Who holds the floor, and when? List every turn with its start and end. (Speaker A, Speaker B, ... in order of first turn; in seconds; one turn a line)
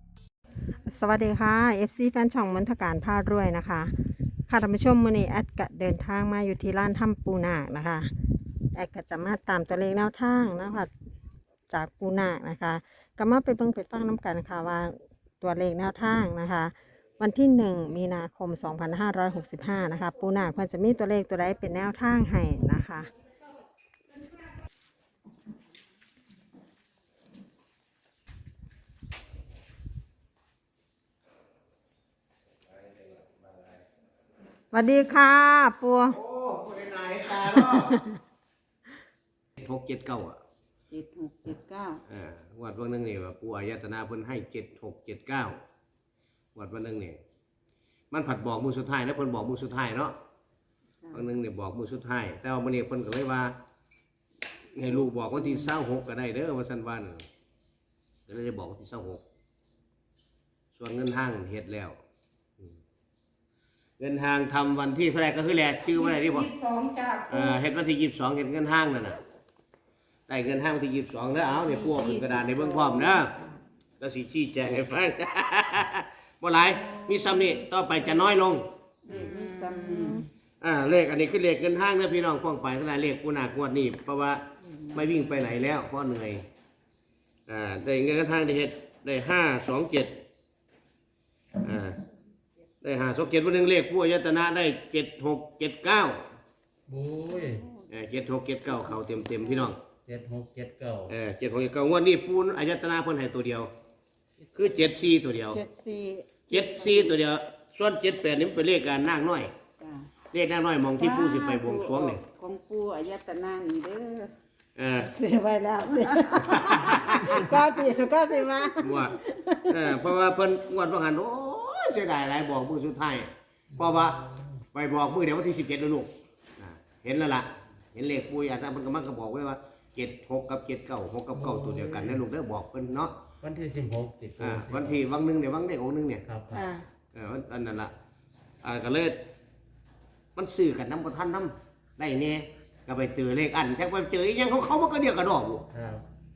Speaker A: 0.9-3.9
Speaker A: 4.5-8.1
Speaker A: 8.7-10.9
Speaker A: 11.7-23.1
Speaker A: 34.7-36.2
Speaker B: 36.1-38.0
Speaker A: 37.6-38.1
Speaker B: 39.6-40.4
Speaker C: 40.9-42.0
Speaker B: 42.1-45.6
Speaker B: 46.5-47.2
Speaker B: 48.1-50.1
Speaker B: 51.1-53.5
Speaker B: 54.7-57.3
Speaker B: 58.3-59.2
Speaker B: 60.7-62.0
Speaker B: 64.0-66.5
Speaker C: 66.0-67.5
Speaker B: 67.3-69.2
Speaker B: 70.3-73.3
Speaker C: 71.6-73.5
Speaker B: 74.0-78.7
Speaker C: 79.0-80.2
Speaker A: 79.1-80.2
Speaker B: 80.6-84.4
Speaker C: 84.7-85.0
Speaker B: 84.9-86.4
Speaker B: 87.5-90.2
Speaker B: 91.6-92.0
Speaker B: 92.8-96.2
Speaker D: 96.9-97.7
Speaker C: 97.3-97.7
Speaker B: 97.9-99.8
Speaker D: 100.0-101.1
Speaker B: 101.1-103.7
Speaker B: 104.5-105.6
Speaker A: 105.5-107.1
Speaker B: 106.5-109.5
Speaker C: 109.8-110.1
Speaker B: 110.3-112.2
Speaker C: 111.0-114.3
Speaker B: 114.8-115.1
Speaker A: 115.0-119.8
Speaker B: 116.5-117.4
Speaker B: 118.8-119.2
Speaker B: 119.7-124.2
Speaker D: 123.7-124.5
Speaker B: 124.7-133.1
Speaker D: 131.3-132.2
Speaker D: 133.4-135.0
Speaker B: 134.4-136.2
Speaker D: 136.2-136.7
Speaker A: 136.5-136.8
Speaker B: 137.1-137.9
Speaker B: 138.6-139.2
Speaker B: 140.3-145.7
Speaker D: 145.7-146.0